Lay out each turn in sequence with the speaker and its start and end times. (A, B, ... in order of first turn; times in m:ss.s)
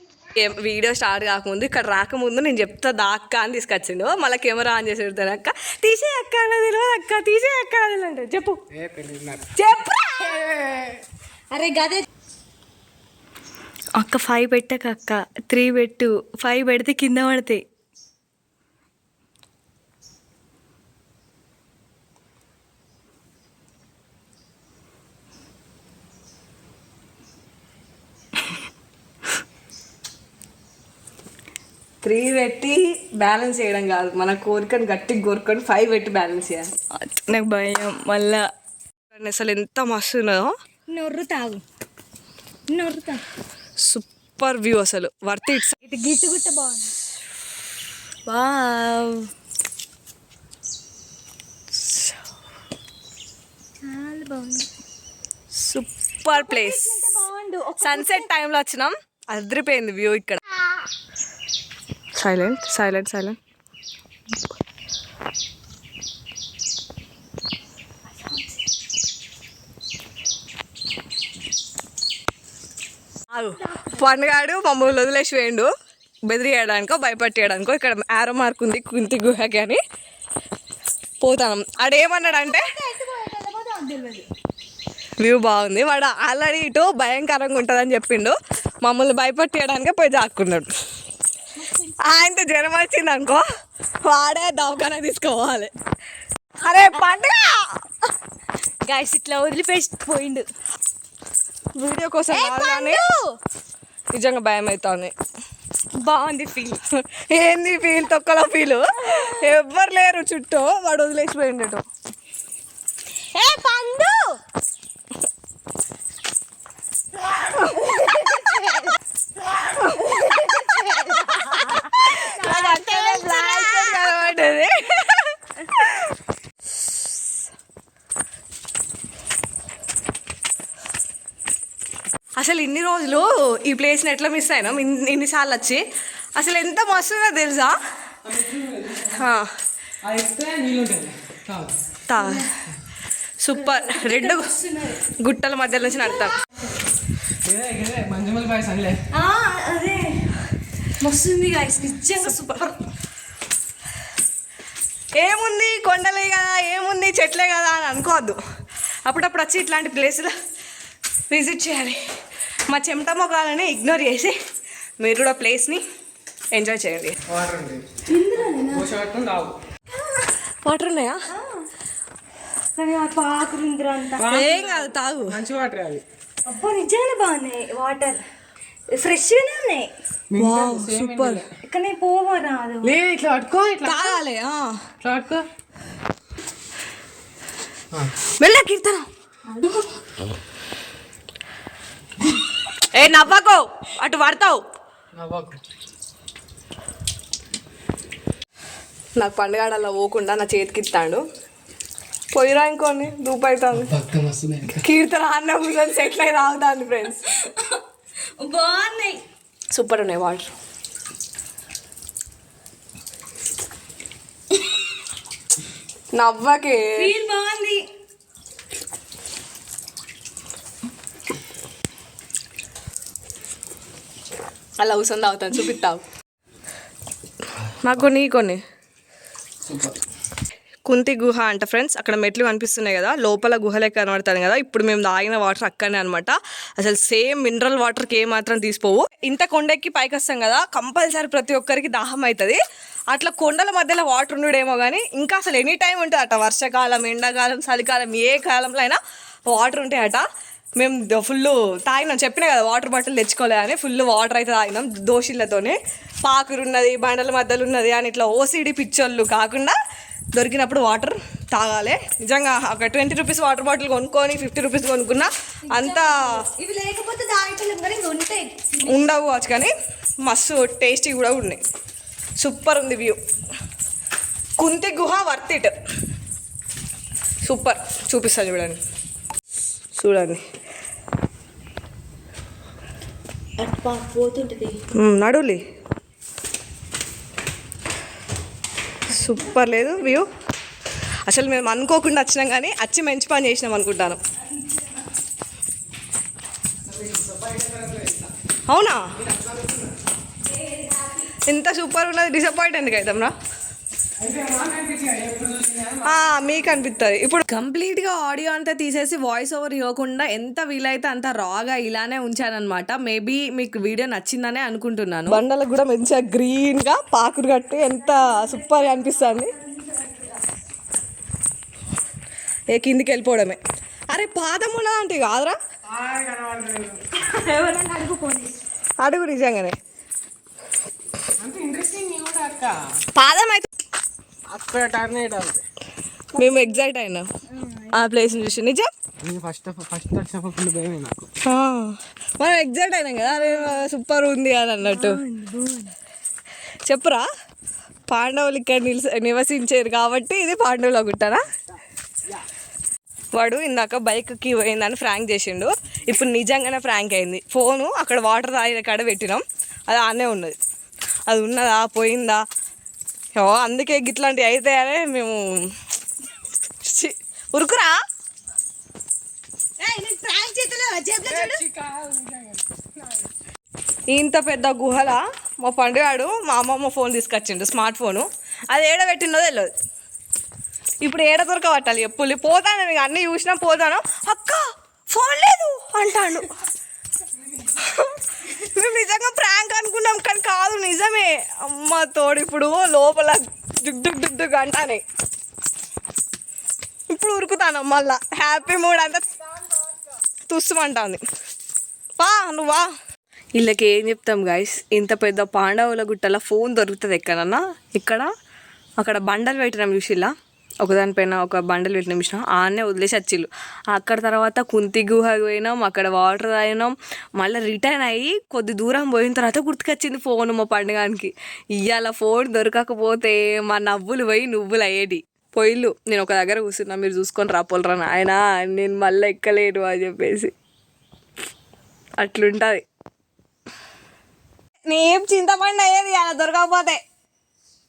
0:00.4-0:08.6 A
0:08.7-0:09.5 B
0:09.5-0:10.6 A
0:10.6-0:11.0 B
0:11.5-0:12.0 C
0:14.0-0:17.6 C
0:32.0-0:36.7 A
0:37.0-0:38.5 C
0:39.1-0:40.5 A
0:40.9-0:41.6 C
0:42.7-0:43.2 C
0:43.8-0:45.8 A
0:45.8-0:47.0 C
0:48.3-0:49.3 C
0:51.8-0:52.1 A
0:53.8-0:54.7 C
0:55.6-0:57.1 A
0:56.3-0:58.3 C
0:57.8-1:00.4 A
1:02.2-1:03.4 A
1:13.3-1:15.7 A
1:13.6-1:14.1 C
1:16.3-1:19.8 A
1:21.2-1:22.7 A
1:22.0-1:24.3 C
1:25.2-1:30.7 A
1:31.6-1:32.3 C
1:32.0-1:33.4 A
1:34.0-1:35.7 A
1:36.6-1:37.7 A
1:38.8-1:40.5 C
1:41.8-1:43.0 A
1:42.3-1:43.4 C
1:44.1-1:45.1 A
1:45.9-1:46.8 C
1:47.1-1:51.8 A
1:49.1-1:49.4 C
1:53.3-1:54.4 C
1:57.5-1:59.0 C
1:59.7-2:04.4 C
2:01.8-2:06.1 A
2:12.4-2:15.8 A
2:16.4-2:17.8 A
2:18.2-2:19.2 B
2:19.1-2:19.5 A
2:20.0-2:21.7 B
2:22.1-2:22.5 A
2:22.2-2:22.5 C
2:23.4-2:24.5 A
2:23.5-2:25.0 C
2:25.2-2:26.4 A
2:27.4-2:29.0 B
2:29.1-2:30.4 C
2:31.0-2:32.8 C
2:35.2-2:38.4 A
2:39.0-2:40.3 A
2:41.3-2:42.0 A
2:42.7-2:44.4 A
2:45.0-2:45.8 A
2:46.5-2:47.2 A
2:47.3-2:48.0 B
2:48.1-2:48.9 C
2:48.6-2:49.6 B
2:50.0-2:50.2 C
2:50.6-2:51.2 A
2:51.3-2:51.6 C
2:52.8-2:54.6 C
2:54.2-2:56.0 B
2:54.3-2:55.4 A
2:56.4-2:58.2 C
2:58.9-2:59.9 C
3:00.3-3:01.5 B
3:00.4-3:01.4 A
3:01.6-3:03.0 C
3:02.8-3:04.2 B
3:03.8-3:04.8 A
3:05.0-3:05.4 B
3:08.4-3:09.1 A
3:09.5-3:09.9 C
3:12.9-3:14.6 A
3:15.1-3:15.6 B
3:19.2-3:21.2 A
3:22.3-3:23.9 A
3:23.7-3:24.8 B
3:24.8-3:27.3 A
3:27.3-3:27.8 C
3:28.4-3:29.2 C
3:29.7-3:30.5 A
3:36.1-3:37.1 A
3:36.8-3:37.9 C
3:44.8-3:46.0 A
3:47.8-3:48.6 A
3:49.6-3:50.0 B
3:50.9-4:02.6 A
4:03.1-4:09.0 A
4:09.5-4:10.2 A
4:10.8-4:19.8 A
4:20.3-4:26.2 A
4:25.7-4:29.1 C
4:28.8-4:31.6 A
4:32.4-4:33.2 A
4:34.6-4:35.7 A
4:37.4-4:38.8 A
4:39.9-4:40.4 A
4:43.6-4:44.8 C
4:44.9-4:45.6 A
4:49.1-4:50.3 A
4:51.3-4:54.2 A
4:56.9-4:58.3 B
4:58.7-4:59.1 A
4:59.2-4:59.9 B
5:00.5-5:01.3 C
5:01.4-5:03.3 A
5:04.2-5:06.6 B
5:06.0-5:19.5 A
5:18.0-5:20.4 C
5:22.7-5:23.6 A
5:24.1-5:25.6 A
5:25.9-5:27.0 B
5:27.2-5:28.6 C
5:29.0-5:29.8 A
5:31.4-5:32.8 B
5:33.1-5:33.7 A
5:34.5-5:35.6 B
5:36.3-5:37.2 A
5:36.4-5:36.7 C
5:37.5-5:38.1 C
5:37.9-5:38.9 A
5:39.2-5:41.3 B
5:41.4-5:45.2 A
5:43.3-5:43.8 C
5:44.8-5:45.9 C
5:46.9-5:47.3 A
5:48.1-5:51.5 A
5:53.3-6:00.6 A
6:01.3-6:02.4 A
6:03.4-6:05.4 A
6:06.8-6:08.0 A
6:09.8-6:11.6 C
6:11.2-6:13.2 B
6:14.1-6:19.7 A
6:21.0-6:26.6 A
6:27.6-6:35.0 A
6:37.1-6:39.3 A
6:40.5-6:41.2 A
6:42.2-6:42.9 A
6:43.6-6:48.3 A
6:49.0-6:50.3 A
6:50.8-7:10.5 A
7:12.2-7:12.8 A
7:14.9-7:17.0 A